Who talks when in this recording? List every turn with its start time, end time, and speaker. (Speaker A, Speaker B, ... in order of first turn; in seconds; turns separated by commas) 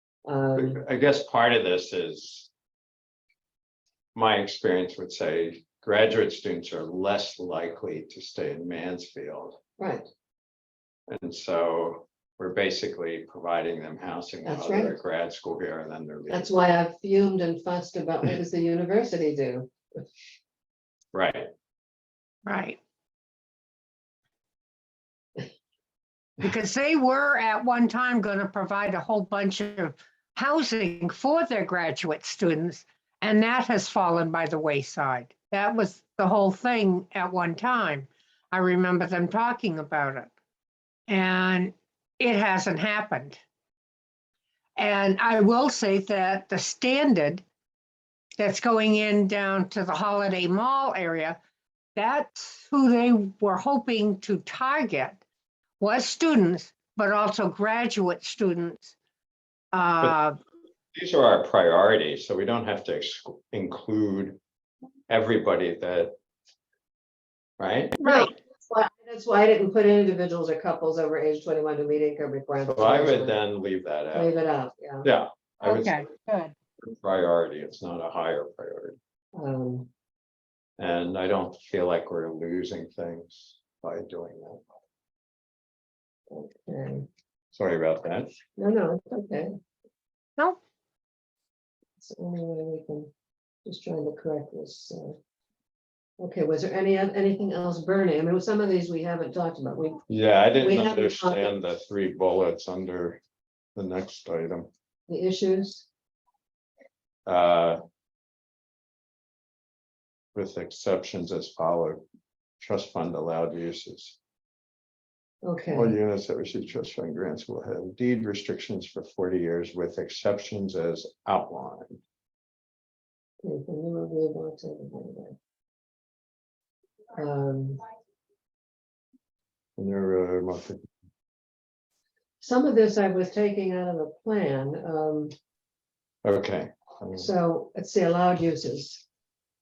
Speaker A: 0.3-0.8, Speaker B: 0.6-2.5, Speaker B: 4.2-9.6, Speaker A: 9.8-10.1, Speaker B: 11.1-16.5, Speaker A: 14.4-15.0, Speaker A: 16.3-19.7, Speaker B: 21.1-21.5, Speaker C: 22.5-22.8, Speaker C: 26.4-40.3, Speaker C: 41.1-43.4, Speaker C: 44.8-47.4, Speaker C: 48.4-51.4, Speaker C: 52.0-55.2, Speaker C: 55.8-58.9, Speaker C: 59.7-60.4, Speaker B: 61.0-64.4, Speaker B: 65.1-66.2, Speaker B: 67.6-68.0, Speaker C: 68.0-68.3, Speaker A: 68.1-73.4, Speaker B: 72.6-74.3, Speaker A: 74.1-75.1, Speaker B: 75.0-76.1, Speaker C: 75.6-76.5, Speaker B: 76.8-79.0, Speaker A: 79.3-79.9, Speaker B: 80.8-84.6, Speaker A: 86.3-87.1, Speaker B: 87.5-88.4, Speaker A: 88.6-89.5, Speaker A: 92.0-93.1, Speaker A: 93.7-95.2, Speaker A: 96.2-100.0, Speaker B: 100.1-103.2, Speaker A: 100.6-101.5, Speaker B: 103.8-104.7, Speaker A: 105.1-105.9, Speaker B: 107.3-107.8, Speaker B: 110.3-112.0, Speaker B: 112.6-114.2, Speaker A: 115.4-116.0, Speaker B: 115.7-122.0, Speaker A: 123.4-125.4, Speaker A: 127.2-127.8, Speaker B: 129.8-130.9, Speaker A: 132.4-135.3, Speaker B: 136.2-137.3, Speaker A: 137.2-139.1